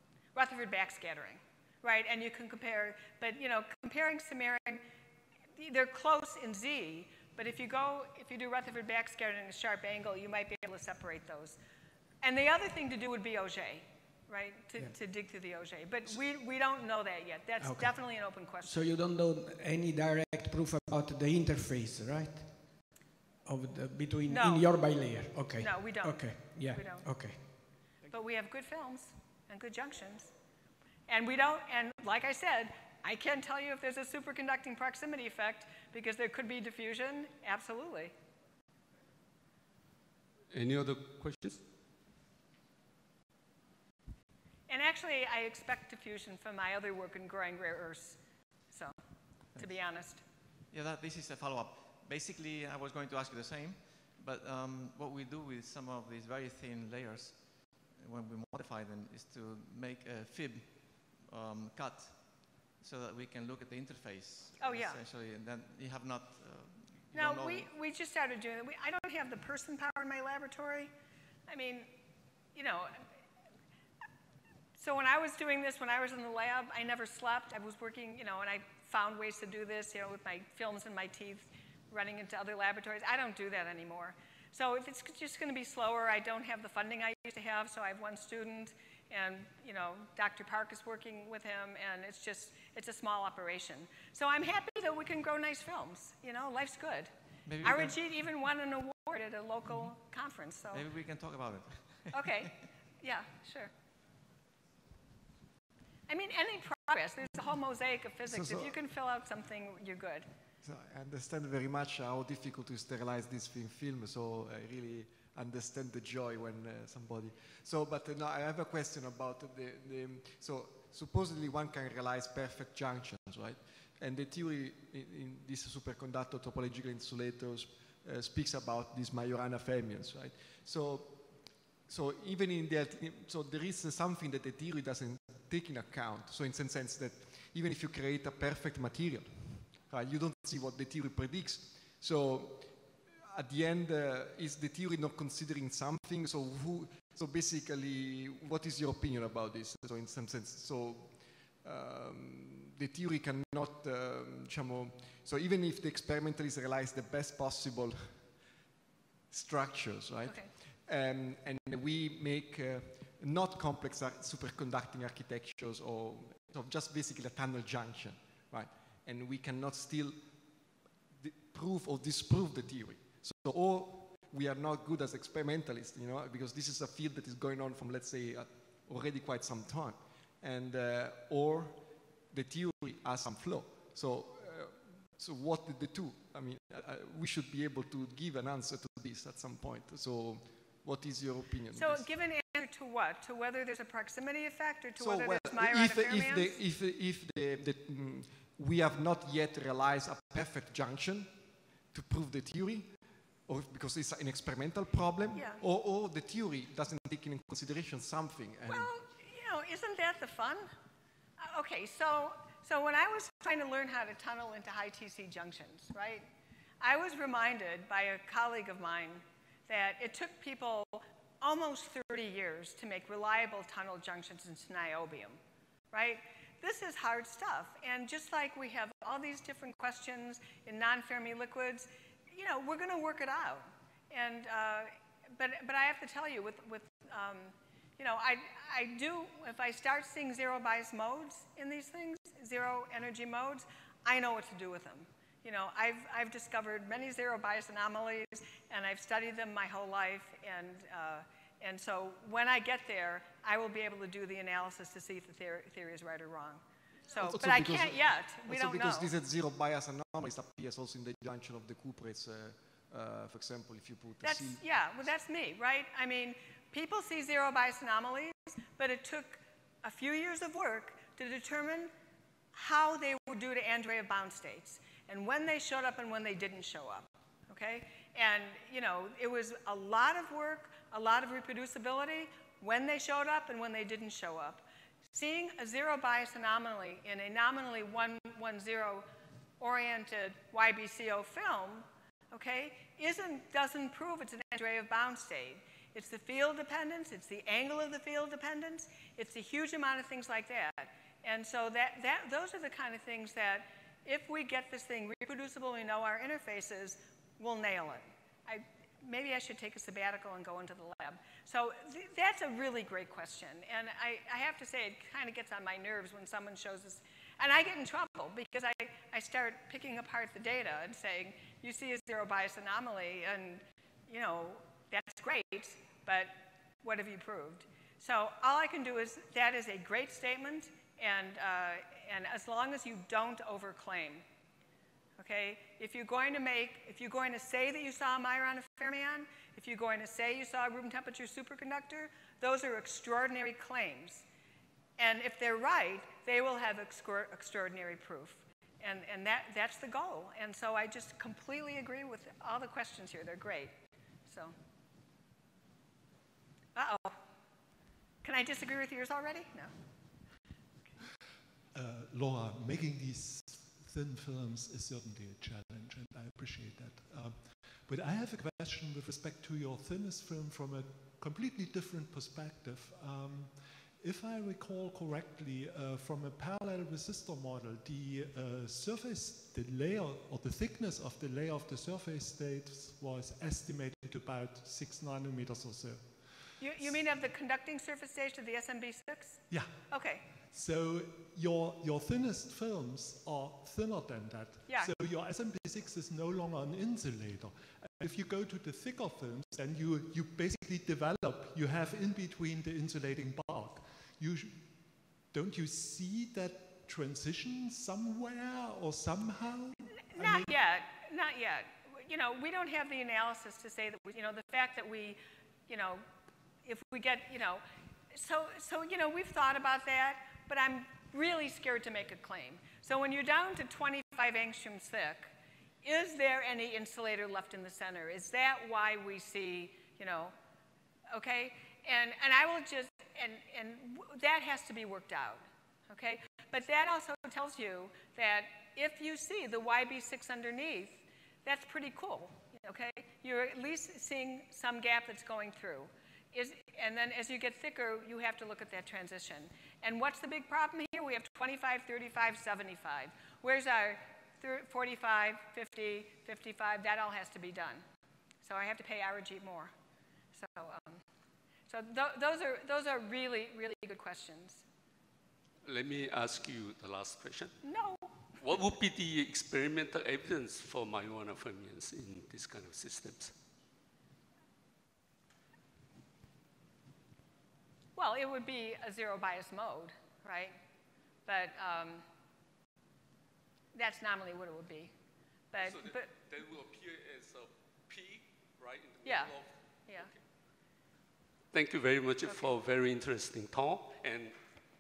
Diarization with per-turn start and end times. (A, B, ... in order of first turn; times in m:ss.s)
0:00.3-0:04.8 A
0:05.6-0:11.6 A
0:12.2-0:18.8 A
0:17.6-0:18.0 B
0:18.6-0:22.6 B
0:23.4-0:27.7 B
0:24.3-0:24.7 A
0:25.6-0:27.6 A
0:28.1-0:30.3 A
0:31.1-0:38.1 A
0:40.5-0:41.6 C
0:44.7-0:49.0 A
0:49.5-0:50.2 A
0:49.6-0:50.1 D
0:50.7-1:07.7 D
1:04.6-1:05.0 A
1:07.1-1:10.9 A
1:11.5-1:11.9 A
1:12.6-1:13.1 A
1:14.8-1:37.1 A
1:37.5-1:38.0 D
1:37.6-1:40.9 A
1:40.7-1:42.7 D
1:42.1-1:43.7 A
1:46.1-1:50.3 A
1:48.3-1:48.7 E
1:50.6-2:38.5 E
2:39.3-3:12.1 E
2:40.2-2:40.5 A
3:11.7-3:16.6 A
3:15.0-3:28.9 E
3:25.3-3:25.6 A
3:28.7-3:30.7 A
3:31.4-3:36.3 A
3:36.8-3:45.4 A
3:45.9-4:19.1 A
4:17.2-4:24.6 E
4:24.2-4:31.9 A
4:32.5-4:49.1 A
4:49.6-5:34.2 A
5:35.2-5:44.3 A
5:45.0-5:54.6 A
5:56.8-5:57.2 A
5:58.2-5:59.7 A
6:01.7-6:26.3 F
6:26.6-6:30.2 A
6:29.5-6:44.8 F
6:34.7-6:34.9 A
6:45.3-6:50.5 F
6:50.1-6:56.0 A
6:56.6-7:10.4 A
7:11.1-7:37.8 A
7:38.4-7:39.7 A
7:40.3-7:41.0 A
7:41.7-7:44.6 A
7:45.6-7:47.6 C
7:47.6-7:48.2 A
7:48.4-7:53.4 C
7:58.0-8:00.6 A
8:01.3-8:02.1 A
8:03.7-8:04.9 A
8:05.5-8:06.1 A
8:05.6-8:10.2 C
8:09.0-8:09.4 A
8:11.5-8:14.4 C
8:12.2-8:12.5 A